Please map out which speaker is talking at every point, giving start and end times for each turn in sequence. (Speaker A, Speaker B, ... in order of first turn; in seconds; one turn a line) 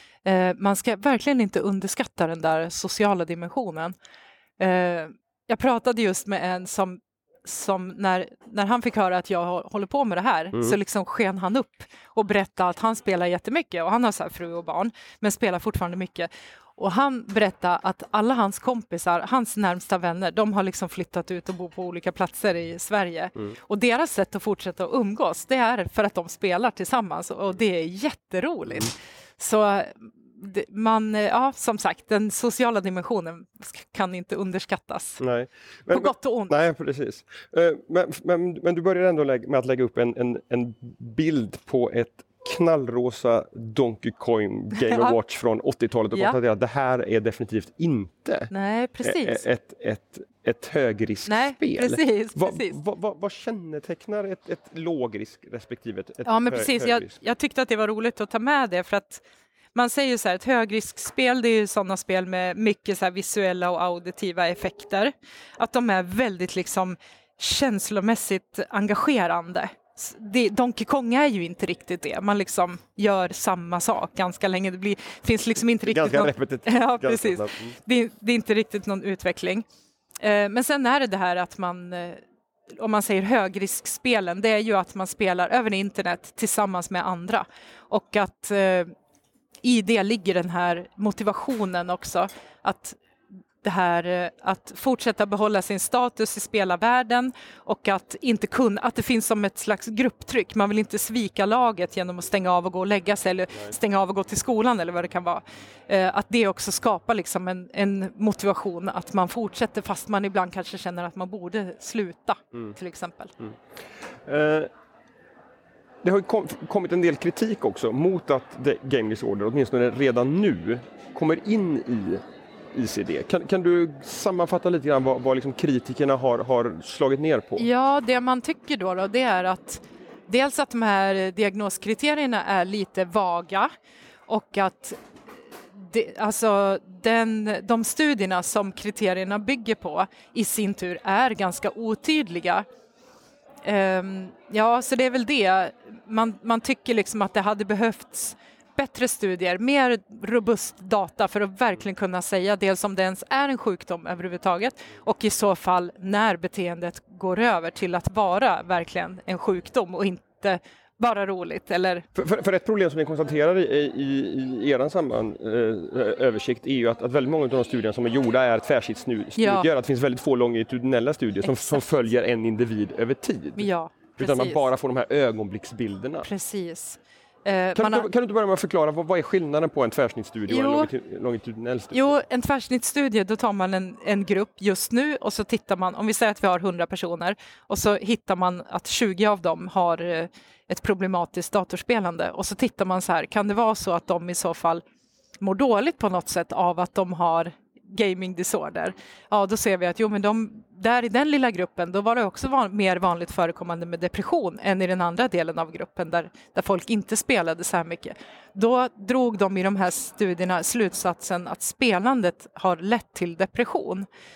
Speaker A: 0.2-3.9
Speaker A: 4.6-35.2
Speaker B: 35.2-48.5
Speaker A: 35.9-36.5
Speaker A: 44.8-45.2
Speaker A: 48.5-49.4
Speaker B: 49.0-57.1
Speaker A: 51.3-52.8
Speaker A: 56.2-59.2
Speaker A: 59.8-79.7
Speaker B: 75.8-77.8
Speaker A: 80.2-82.2
Speaker A: 82.7-88.9
Speaker A: 89.6-93.0
Speaker A: 93.6-113.3
Speaker B: 114.2-114.7
Speaker B: 116.0-127.7
Speaker A: 127.6-133.7
Speaker A: 134.3-135.0
Speaker A: 135.7-142.7
Speaker A: 143.6-162.1
Speaker B: 162.2-176.3
Speaker A: 169.4-169.7
Speaker A: 171.5-171.8
Speaker A: 173.6-174.6
Speaker A: 176.2-178.1
Speaker B: 177.8-182.1
Speaker A: 180.5-180.9
Speaker A: 181.9-194.8
Speaker A: 195.4-214.1